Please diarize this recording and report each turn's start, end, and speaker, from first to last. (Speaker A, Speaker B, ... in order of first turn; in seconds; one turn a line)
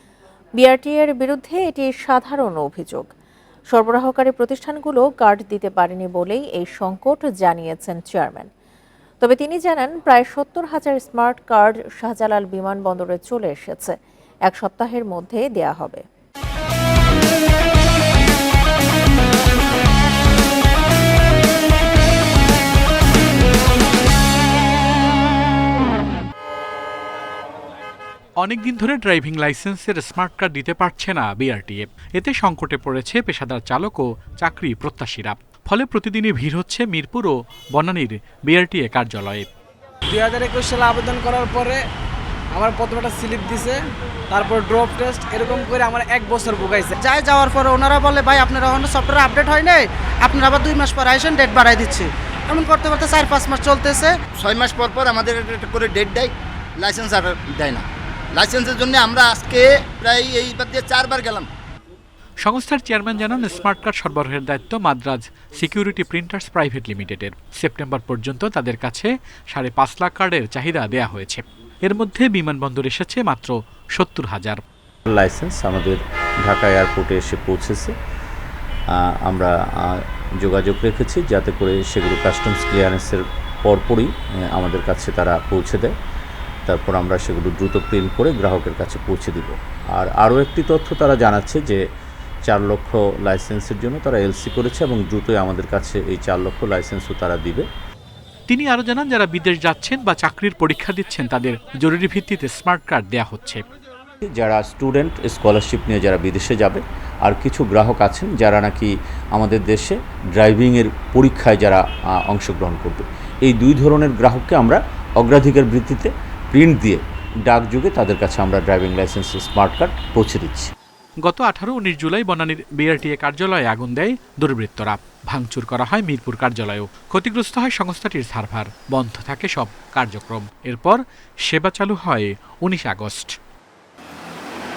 Speaker A: 0.6-3.1
Speaker A: 3.7-8.5
Speaker A: 9.2-16.0
Speaker B: 28.4-39.5
Speaker C: 40.1-41.8
Speaker C: 42.5-46.9
Speaker D: 47.0-54.2
Speaker E: 54.3-61.5
Speaker B: 62.4-74.6
Speaker F: 75.1-77.9
Speaker F: 78.9-85.9
Speaker F: 86.7-91.8
Speaker F: 92.4-97.7
Speaker B: 98.5-103.6
Speaker F: 104.2-120.7
Speaker B: 121.2-133.3